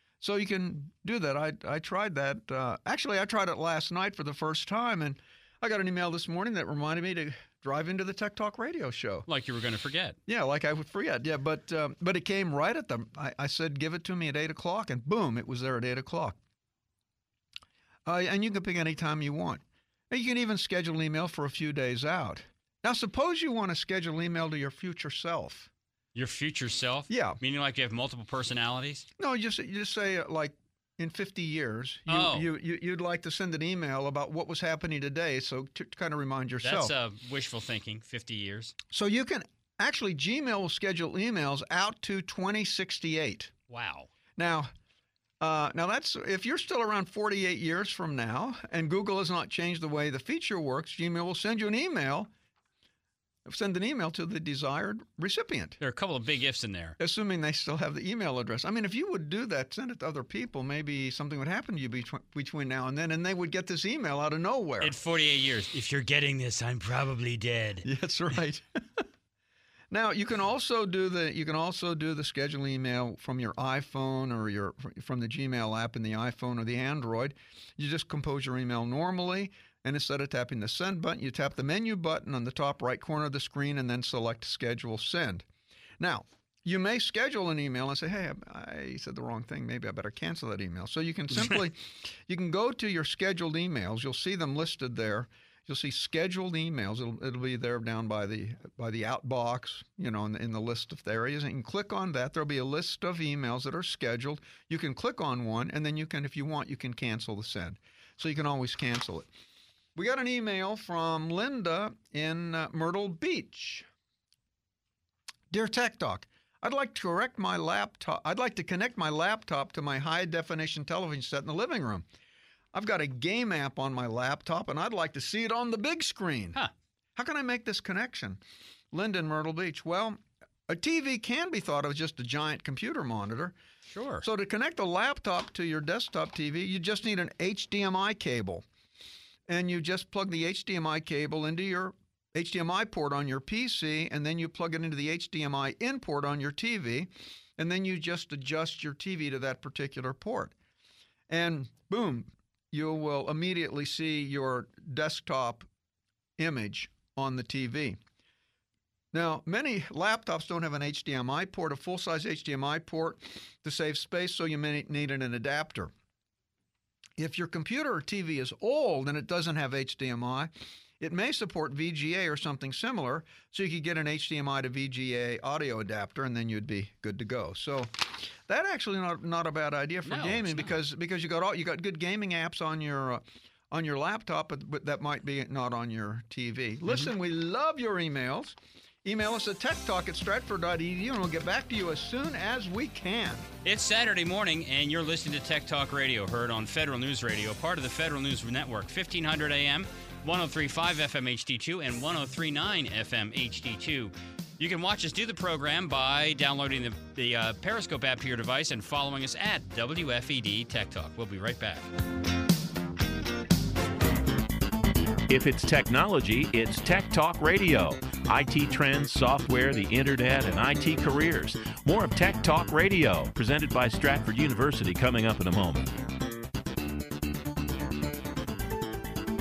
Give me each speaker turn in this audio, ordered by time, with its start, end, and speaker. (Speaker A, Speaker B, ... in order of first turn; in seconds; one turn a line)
Speaker A: 0.2-9.3
Speaker B: 9.3-10.2
Speaker A: 10.3-16.4
Speaker A: 18.1-25.7
Speaker B: 26.1-29.0
Speaker A: 27.1-27.4
Speaker A: 29.2-36.9
Speaker B: 32.1-32.5
Speaker B: 36.6-38.8
Speaker A: 38.9-43.5
Speaker B: 43.7-44.1
Speaker A: 44.4-44.7
Speaker A: 45.4-52.3
Speaker A: 53.5-55.8
Speaker B: 55.8-57.0
Speaker A: 57.0-64.9
Speaker B: 64.8-67.8
Speaker A: 67.8-69.0
Speaker A: 69.9-85.5
Speaker A: 86.0-109.3
Speaker A: 110.0-113.8
Speaker A: 115.5-122.0
Speaker A: 122.7-126.6
Speaker A: 127.2-128.4
Speaker A: 128.9-133.5
Speaker B: 133.9-134.2
Speaker A: 134.2-138.6
Speaker A: 139.5-150.5
Speaker A: 151.3-155.7
Speaker A: 156.4-158.0
Speaker A: 159.1-165.9
Speaker A: 167.2-177.9
Speaker A: 178.5-193.5
Speaker B: 180.0-180.7
Speaker B: 193.6-211.9
Speaker C: 215.3-225.9